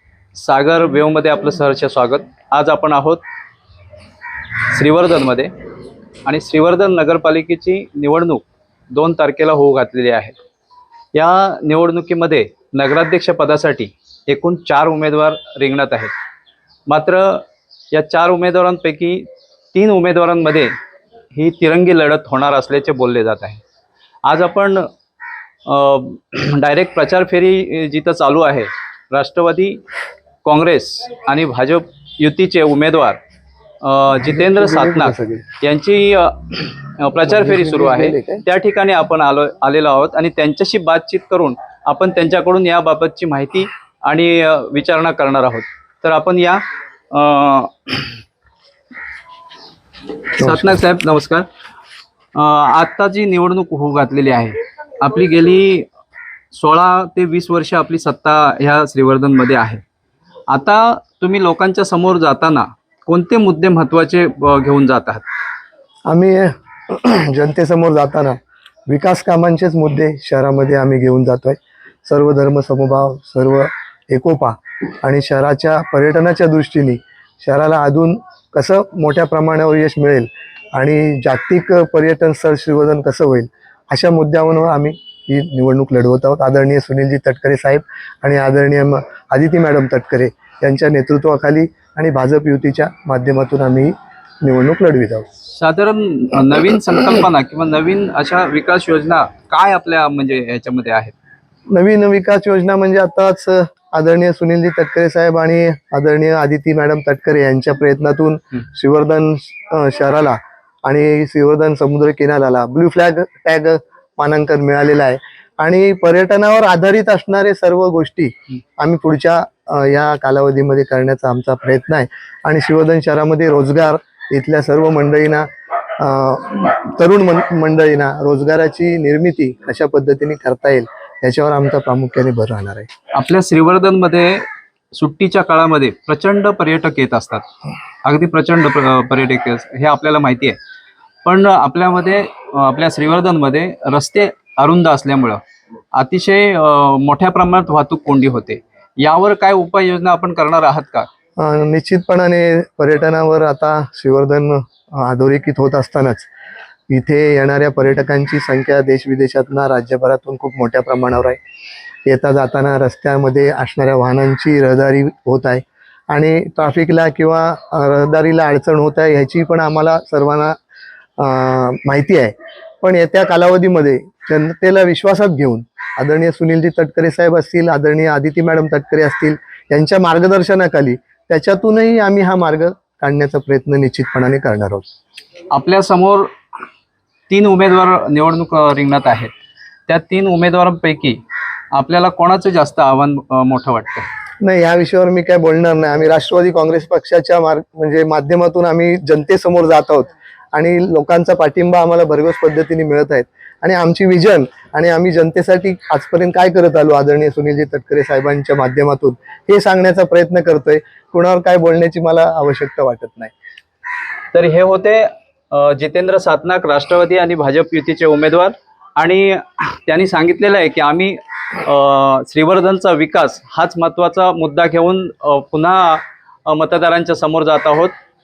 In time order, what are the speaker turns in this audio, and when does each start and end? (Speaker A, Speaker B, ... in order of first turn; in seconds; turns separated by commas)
Speaker A: 0.3-3.2, Speaker A: 4.6-5.5, Speaker A: 6.2-10.4, Speaker A: 11.1-16.1, Speaker A: 16.9-20.7, Speaker A: 21.3-23.6, Speaker A: 24.3-24.9, Speaker A: 25.7-29.8, Speaker A: 30.4-33.2, Speaker A: 33.8-48.2, Speaker B: 34.2-35.5, Speaker B: 37.3-38.4, Speaker A: 50.4-51.5, Speaker B: 50.4-50.8, Speaker A: 52.4-55.9, Speaker A: 56.5-59.8, Speaker A: 60.5-65.2, Speaker B: 66.1-68.4, Speaker B: 68.9-95.3, Speaker A: 95.5-101.1, Speaker B: 101.7-125.5, Speaker B: 126.0-132.9, Speaker A: 133.1-137.4, Speaker A: 138.0-140.6, Speaker A: 141.2-145.4, Speaker A: 145.9-151.1, Speaker B: 151.4-156.3, Speaker B: 156.9-161.4, Speaker B: 162.1-170.6, Speaker B: 171.2-184.9, Speaker A: 185.5-186.3, Speaker A: 187.3-189.3, Speaker A: 189.9-191.2, Speaker A: 191.7-194.1, Speaker B: 194.4-213.3, Speaker A: 214.3-227.9